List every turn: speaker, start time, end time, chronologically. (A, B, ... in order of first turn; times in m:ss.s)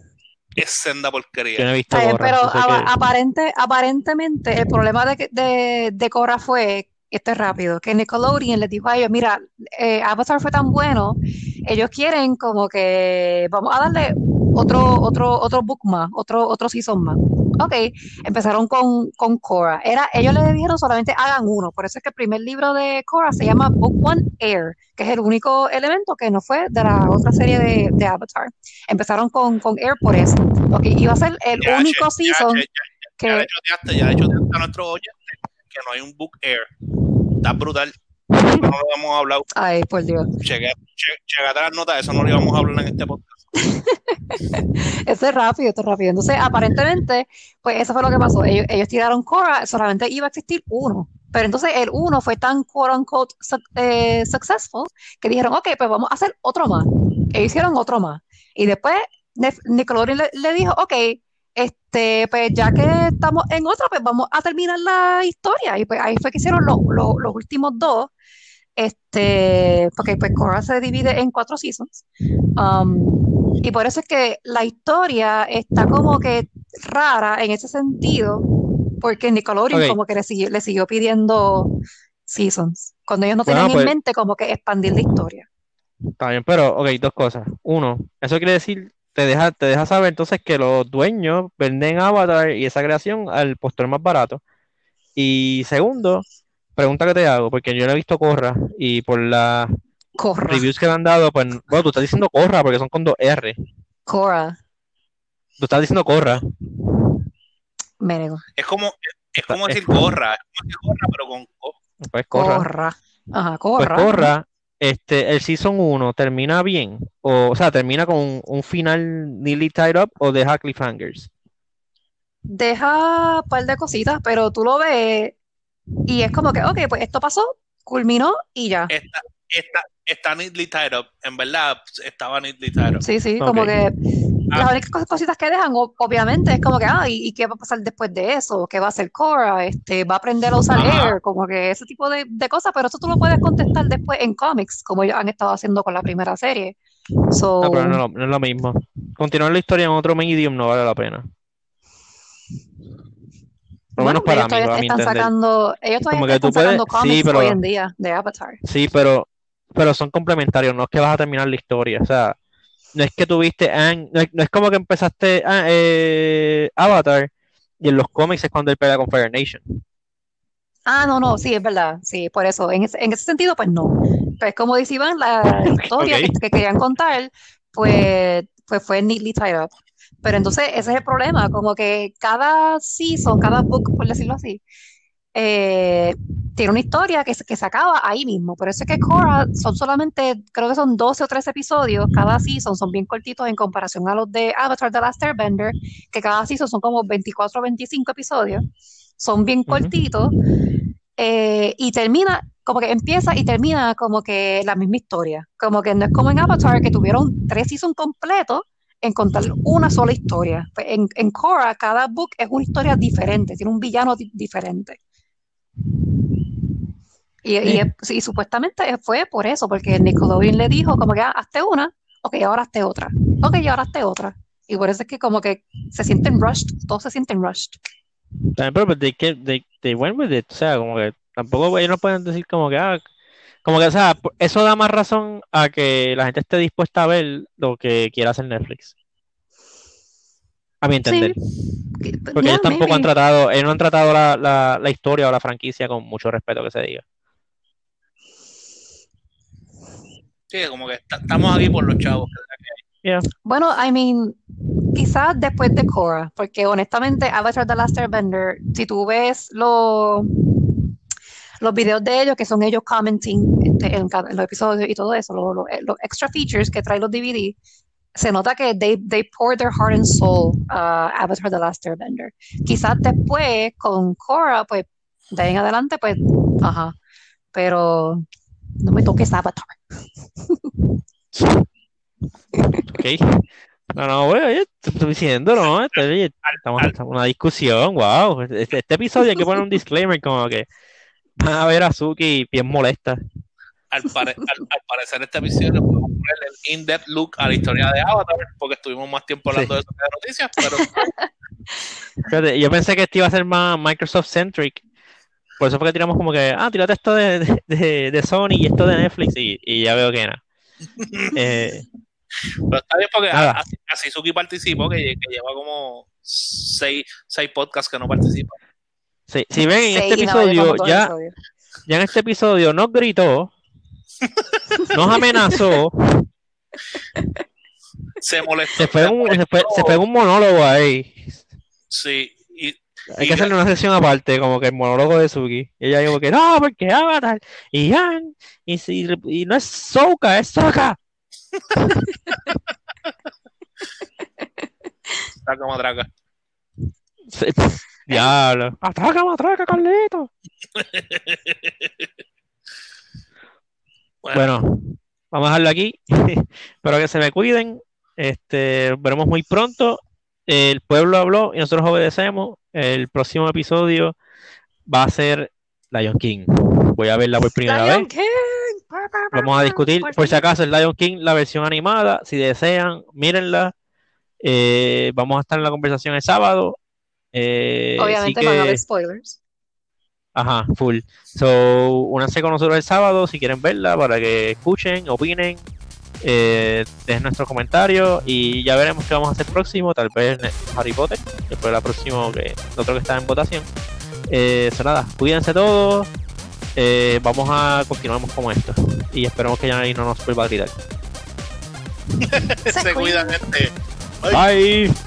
0:00.6-0:01.7 A
0:01.6-0:02.9 B
0:01.9-0:32.6 C
0:31.6-0:36.7 A
0:33.2-0:33.5 C
0:37.4-0:37.9 A
0:38.4-0:38.7 B
0:38.5-0:39.5 A
0:39.6-0:40.3 C
0:40.4-0:43.4 A
0:43.6-1:08.1 C
1:08.8-1:12.0 C
1:12.6-1:18.4 C
1:19.0-1:21.7 C
1:22.3-1:25.5 C
1:23.5-1:23.9 B
1:26.2-1:34.4 B
1:35.2-1:36.2 B
1:36.8-1:39.7 B
1:40.2-1:40.6 C
1:40.5-1:43.6 B
1:44.1-1:44.6 C
1:45.6-1:47.2 B
1:48.0-1:48.4 C
1:48.6-1:51.8 A
1:49.4-1:50.0 B
1:52.0-1:52.7 B
1:52.3-1:54.3 C
1:53.8-2:01.3 B
2:02.5-2:05.4 C
2:06.1-2:08.9 C
2:08.9-2:13.0 A
2:13.0-2:13.9 C
2:13.4-2:13.7 B
2:14.5-2:26.8 C
2:20.8-2:21.1 A
2:27.3-2:28.0 C
2:27.6-2:31.3 B
2:34.0-2:35.3 B
2:34.0-2:38.6 C
2:36.1-2:37.6 B
2:38.6-2:42.4 B
2:42.9-2:49.8 B
2:50.9-2:59.7 C
2:55.6-2:56.4 B
3:00.2-3:04.6 C
3:05.4-3:18.6 C
3:19.2-3:20.3 C
3:21.2-3:35.0 C
3:37.4-3:47.8 C
3:48.6-3:53.0 B
3:53.6-3:58.9 B
4:00.8-4:01.4 B
4:01.1-4:01.4 C
4:02.0-4:03.1 C
4:02.4-4:07.0 B
4:10.5-4:12.8 A
4:13.4-4:14.4 C
4:14.9-4:20.3 C
4:21.6-4:27.6 C
4:28.1-4:36.9 C
4:37.5-4:38.3 C
4:38.8-4:39.8 C
4:41.3-4:41.6 B
4:42.8-4:50.7 B
4:46.5-4:46.9 A
4:51.4-4:53.2 B
4:53.9-5:01.1 A
5:02.3-5:04.8 B
5:05.6-5:10.4 B
5:11.0-5:11.4 A
5:11.3-5:11.9 B
5:12.7-5:18.6 A
5:13.3-5:13.6 B
5:19.3-5:21.1 B
5:19.8-5:21.3 C
5:21.9-5:23.5 B
5:24.9-5:26.3 B
5:28.2-5:30.0 A
5:28.8-5:31.4 B
5:31.9-5:33.5 A
5:33.1-5:41.0 B
5:45.4-5:46.1 A
5:47.3-5:50.3 B
5:50.8-5:52.1 A
5:54.3-6:04.1 B
6:04.9-6:08.1 B
6:07.6-6:10.4 C
6:09.3-6:13.7 B
6:14.4-6:16.8 B
6:17.3-6:18.8 B
6:18.0-6:19.4 C
6:20.4-6:25.6 B
6:26.2-6:33.7 B
6:34.3-6:36.1 B
6:36.8-6:40.7 B
6:42.2-6:44.4 A
6:42.7-6:43.4 C
6:44.3-6:45.0 B